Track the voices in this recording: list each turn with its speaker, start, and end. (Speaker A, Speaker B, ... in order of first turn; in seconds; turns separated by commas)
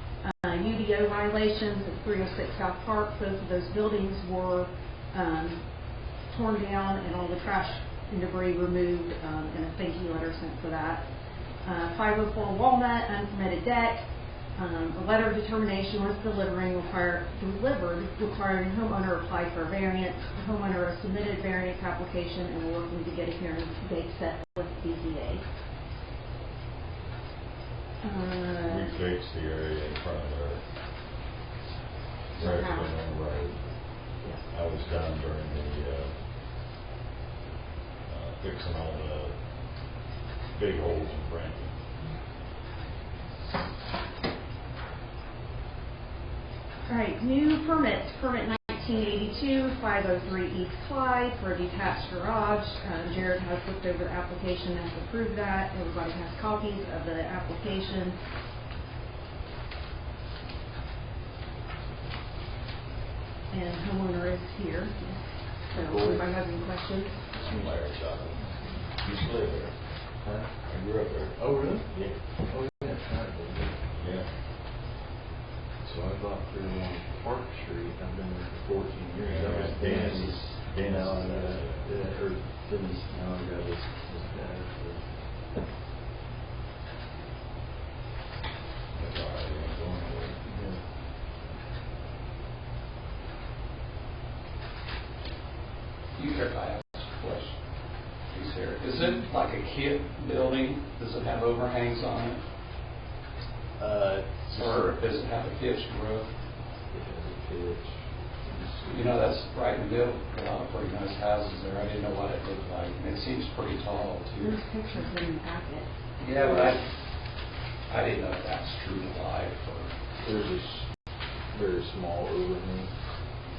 Speaker A: 0.2-5.7, Speaker A: 6.2-11.1, Speaker A: 11.6-25.5, Speaker A: 28.0-28.9, Speaker B: 28.7-30.6, Speaker B: 32.3-33.7, Speaker A: 32.3-33.0, Speaker B: 34.5-36.2, Speaker B: 38.1-39.4, Speaker B: 40.5-41.7, Speaker A: 46.9-58.2, Speaker A: 63.5-67.3, Speaker C: 65.7-66.3, Speaker B: 67.3-68.4, Speaker C: 67.3-68.4, Speaker B: 69.0-69.8, Speaker C: 70.2-73.8, Speaker B: 73.9-74.3, Speaker C: 75.8-85.2, Speaker B: 79.2-81.9, Speaker B: 88.9-90.4, Speaker C: 90.4-90.8, Speaker D: 96.2-97.6, Speaker D: 98.3-102.4, Speaker C: 103.8-105.0, Speaker D: 104.5-106.3, Speaker C: 106.9-109.2, Speaker D: 108.9-114.6, Speaker A: 114.4-115.9, Speaker D: 116.2-116.9, Speaker C: 116.3-116.8, Speaker D: 117.9-119.9, Speaker C: 120.2-120.9, Speaker C: 121.5-122.9